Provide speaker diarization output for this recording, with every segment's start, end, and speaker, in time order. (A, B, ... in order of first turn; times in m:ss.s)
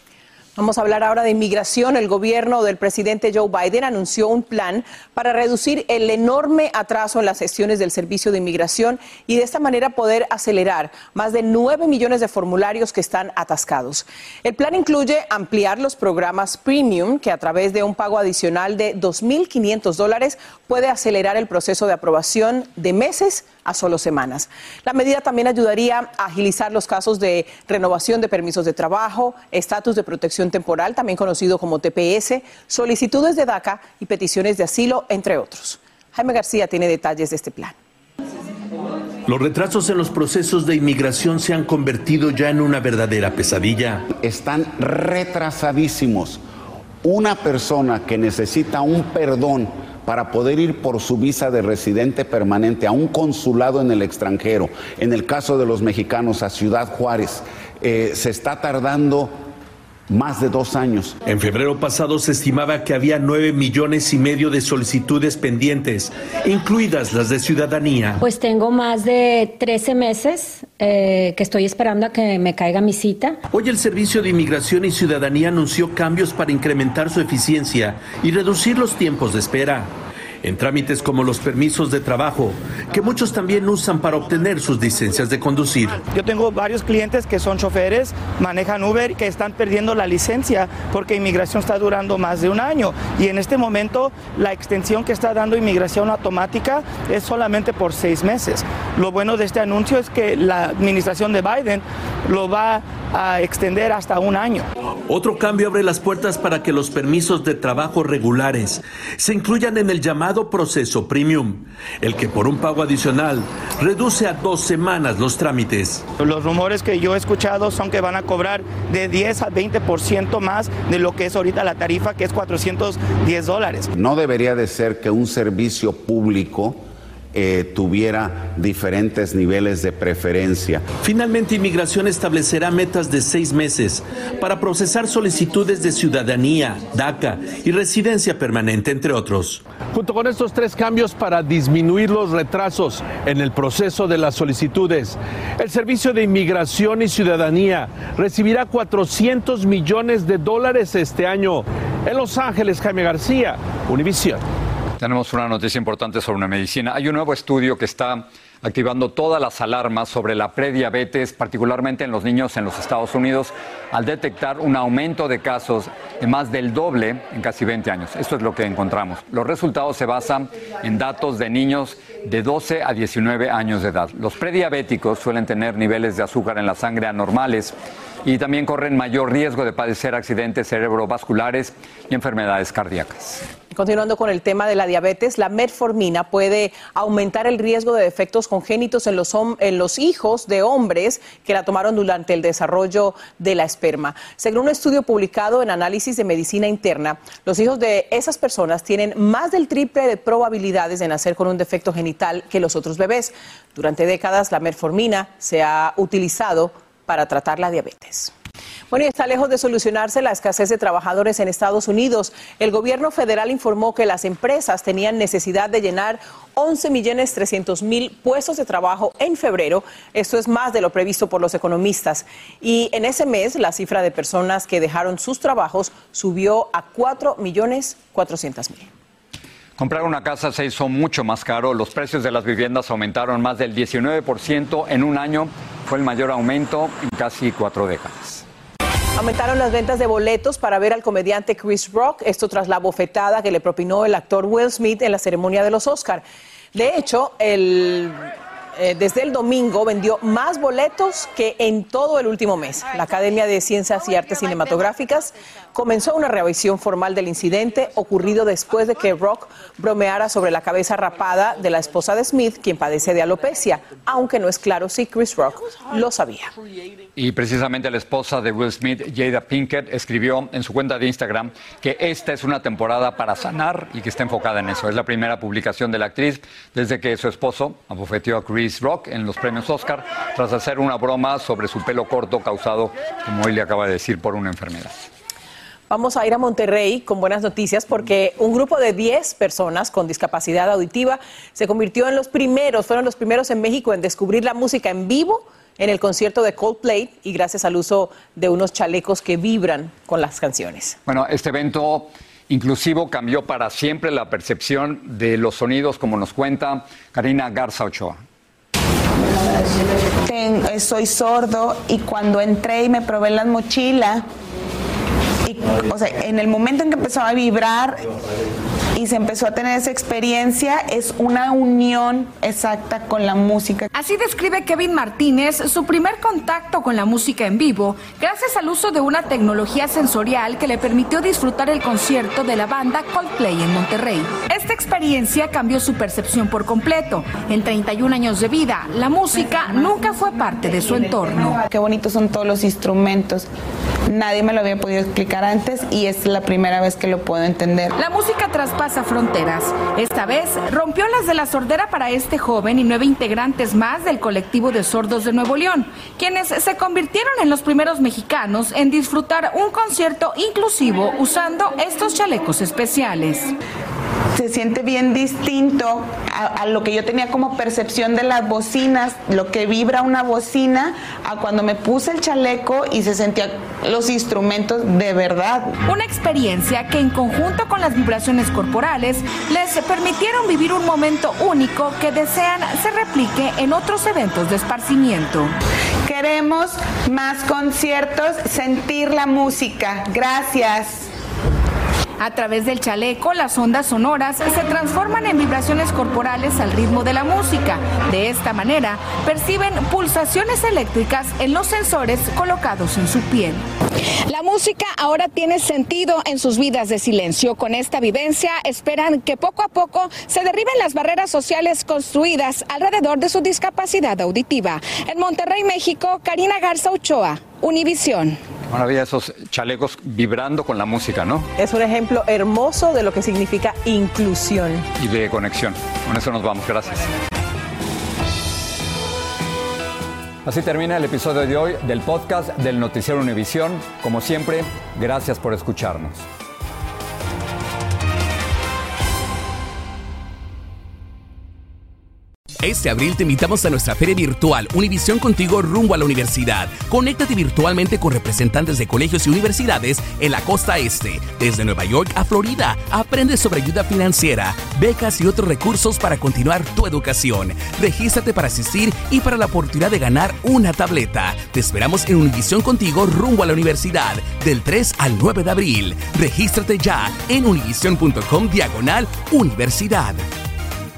0:00.6-0:37.8 A
0:39.3-0:44.1 B
0:44.1-0:46.4 C
0:47.0-0:59.4 C
1:00.1-1:01.1 C
1:01.2-1:08.2 B
1:08.2-1:13.4 D
1:13.5-1:26.0 B
1:26.1-1:44.7 E
1:45.1-1:56.0 B
1:56.2-2:03.9 E
2:03.9-2:10.8 C
2:11.0-2:19.6 B
2:35.0-3:03.4 F
3:03.7-3:28.3 A
3:28.9-3:48.9 A
3:49.8-3:58.4 F
3:59.2-4:08.2 A
4:08.8-4:26.5 A
4:27.2-4:45.1 F
4:45.9-5:01.0 A
5:01.1-5:08.2 F
5:10.2-5:14.3 G
5:15.5-5:18.0 G
5:19.0-5:23.9 G
5:24.0-5:41.6 H
5:41.5-5:43.5 G
5:44.1-5:47.9 G
5:48.0-6:03.5 H
6:04.4-6:15.7 G
6:15.9-6:25.5 H
6:26.1-6:31.1 G
6:32.2-6:43.6 H
6:44.3-6:58.4 H
6:58.7-7:01.5 F
7:01.6-7:04.9 A
7:05.0-7:07.1 F
7:10.4-7:16.2 F
7:22.6-7:50.3 I